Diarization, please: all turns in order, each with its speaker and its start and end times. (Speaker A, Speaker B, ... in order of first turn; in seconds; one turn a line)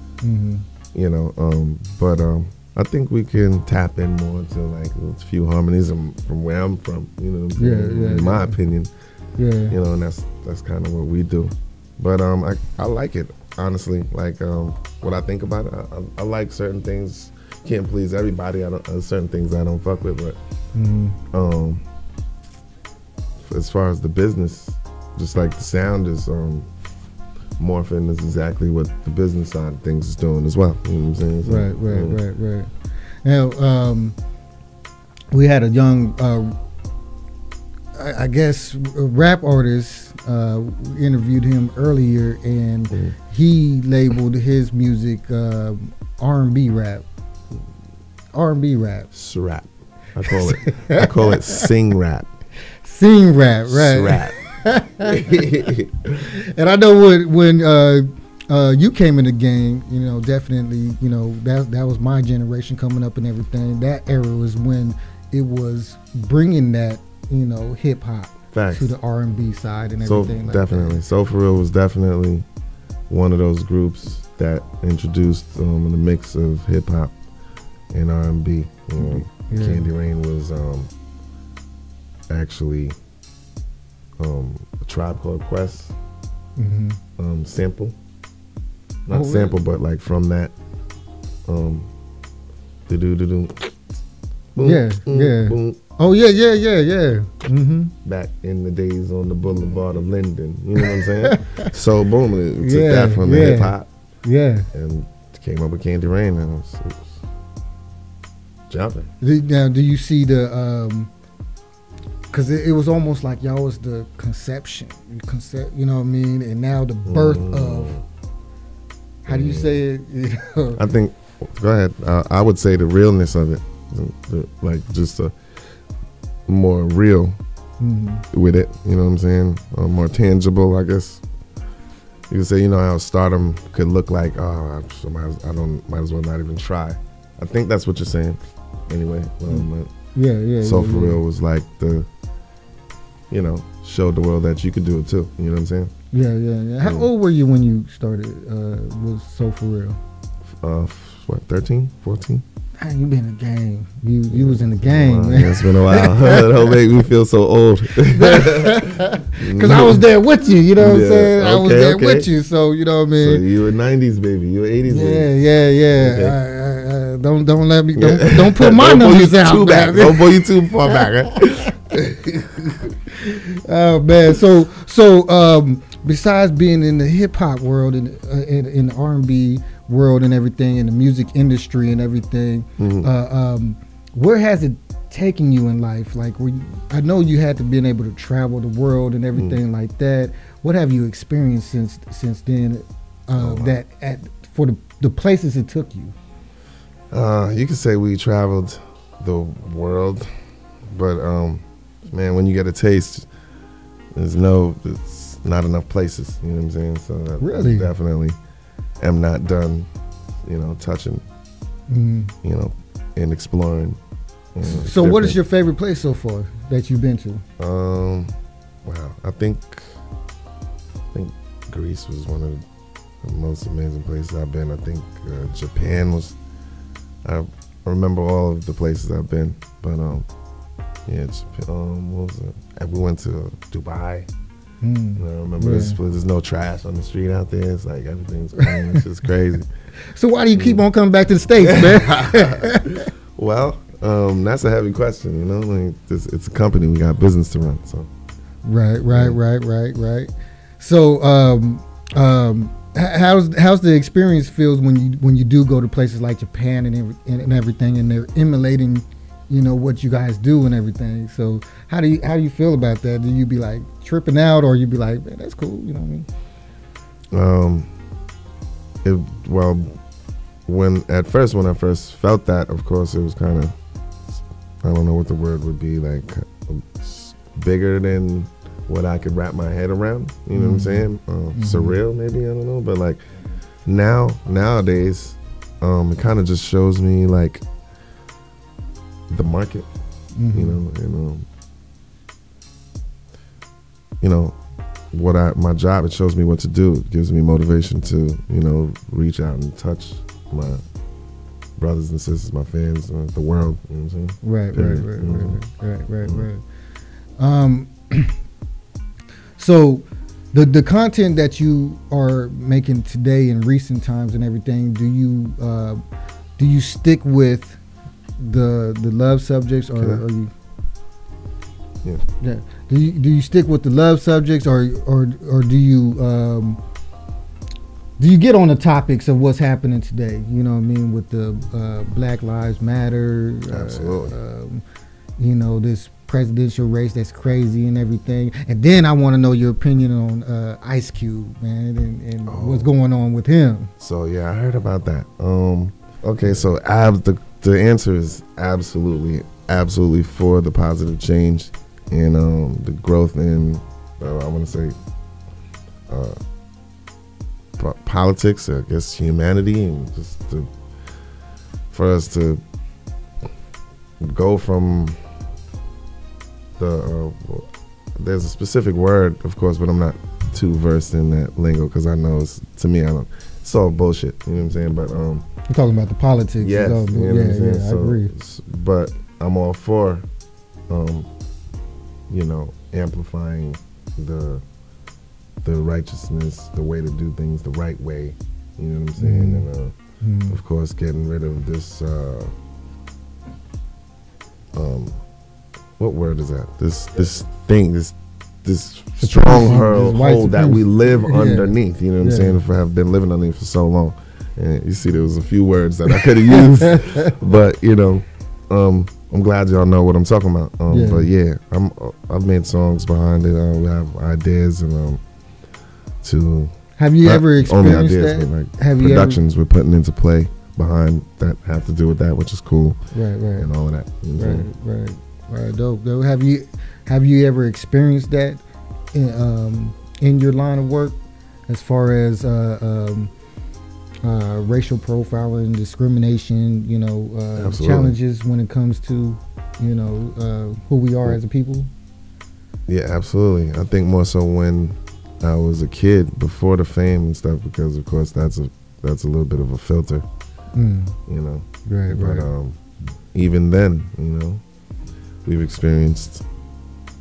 Speaker A: 0.2-0.7
Speaker B: 0.9-8.9
Speaker A: 7.6-8.6
Speaker A: 9.4-9.8
Speaker B: 9.7-20.4
Speaker A: 20.7-21.2
Speaker B: 21.3-21.8
Speaker B: 23.4-26.7
Speaker B: 27.6-32.2
Speaker A: 31.4-32.7
Speaker A: 33.2-34.1
Speaker A: 35.3-36.5
Speaker A: 37.9-47.0
Speaker A: 48.3-49.1
Speaker B: 49.1-52.3
Speaker A: 50.3-51.7
Speaker A: 52.8-55.5
Speaker B: 53.7-54.4
Speaker B: 55.0-56.2
Speaker A: 56.2-71.0
Speaker B: 68.5-69.0
Speaker B: 70.0-72.5
Speaker B: 73.1-77.1
Speaker B: 77.9-80.9
Speaker A: 79.0-79.9
Speaker B: 82.3-83.0
Speaker B: 84.2-85.9
Speaker A: 86.6-87.0
Speaker B: 87.2-88.0
Speaker B: 89.1-90.5
Speaker A: 89.1-89.6
Speaker B: 91.5-91.9
Speaker B: 92.9-93.8
Speaker B: 94.5-95.8
Speaker A: 94.6-97.9
Speaker B: 98.0-103.9
Speaker A: 100.9-101.7
Speaker A: 102.6-104.7
Speaker B: 104.7-107.2
Speaker B: 108.7-109.1
Speaker A: 109.2-111.1
Speaker A: 112.3-118.0
Speaker B: 117.1-118.0
Speaker A: 119.2-120.8
Speaker B: 119.3-119.8
Speaker B: 120.8-125.4
Speaker B: 126.5-127.4
Speaker A: 127.8-128.2
Speaker B: 128.3-131.2
Speaker B: 132.3-139.9
Speaker A: 139.5-141.2
Speaker B: 140.6-142.1
Speaker B: 143.3-145.9
Speaker A: 146.1-150.0
Speaker B: 146.8-147.1
Speaker B: 150.5-152.4
Speaker A: 152.8-156.8
Speaker B: 154.3-160.1
Speaker A: 158.0-163.4
Speaker B: 160.8-162.3
Speaker B: 163.2-165.3
Speaker A: 164.9-171.1
Speaker B: 165.9-166.4
Speaker B: 168.0-172.9
Speaker A: 173.1-196.2
Speaker B: 182.8-183.1
Speaker B: 189.3-189.6
Speaker B: 193.4-193.7
Speaker B: 197.1-200.3
Speaker B: 200.9-203.3
Speaker B: 204.1-208.4
Speaker A: 207.4-207.9
Speaker B: 209.0-209.9
Speaker B: 210.4-211.2
Speaker A: 211.9-212.3
Speaker B: 212.4-214.0
Speaker B: 214.6-215.4
Speaker A: 214.6-217.4
Speaker B: 217.6-220.0
Speaker B: 221.1-222.7
Speaker B: 223.2-226.4
Speaker B: 227.2-230.3
Speaker B: 231.1-234.3
Speaker A: 234.8-236.0
Speaker B: 235.2-239.7
Speaker A: 238.6-239.0
Speaker A: 240.1-243.1
Speaker B: 240.6-240.8
Speaker B: 241.6-248.1
Speaker A: 248.7-266.3
Speaker B: 249.1-249.4
Speaker B: 267.3-267.9
Speaker B: 269.0-270.0
Speaker B: 270.7-273.8
Speaker B: 274.3-283.2
Speaker A: 280.5-282.0
Speaker B: 283.9-287.6
Speaker B: 289.3-289.9
Speaker A: 290.4-290.8
Speaker B: 290.5-291.5
Speaker B: 294.2-294.6
Speaker B: 295.1-300.8
Speaker B: 301.8-305.6
Speaker A: 304.4-306.6
Speaker A: 307.4-308.4
Speaker A: 309.6-316.0
Speaker A: 316.6-317.8
Speaker A: 318.4-320.5
Speaker B: 320.0-320.2
Speaker A: 322.4-326.8
Speaker A: 328.2-334.8
Speaker B: 333.7-334.4
Speaker A: 335.4-343.9
Speaker B: 342.5-342.9
Speaker B: 344.0-355.0
Speaker B: 356.1-356.4
Speaker B: 357.8-360.7
Speaker B: 361.9-362.6
Speaker B: 364.2-365.2
Speaker B: 366.8-375.5
Speaker A: 375.7-378.3
Speaker B: 376.6-380.3
Speaker B: 380.9-381.3
Speaker B: 382.3-384.6
Speaker B: 385.6-389.9
Speaker A: 389.2-389.7
Speaker A: 390.2-390.6
Speaker B: 390.5-392.5
Speaker B: 394.8-395.2
Speaker B: 396.0-415.2
Speaker A: 399.2-402.6
Speaker A: 406.8-407.3
Speaker A: 410.9-411.3
Speaker B: 416.2-423.0
Speaker A: 417.0-419.4
Speaker A: 423.1-423.7
Speaker B: 423.6-424.7
Speaker A: 424.4-428.6
Speaker A: 429.1-433.3
Speaker A: 434.2-441.9
Speaker B: 437.6-438.1
Speaker B: 442.9-450.3
Speaker A: 450.8-451.2
Speaker B: 451.3-452.8
Speaker A: 451.9-452.5
Speaker B: 453.3-454.6
Speaker B: 455.4-456.5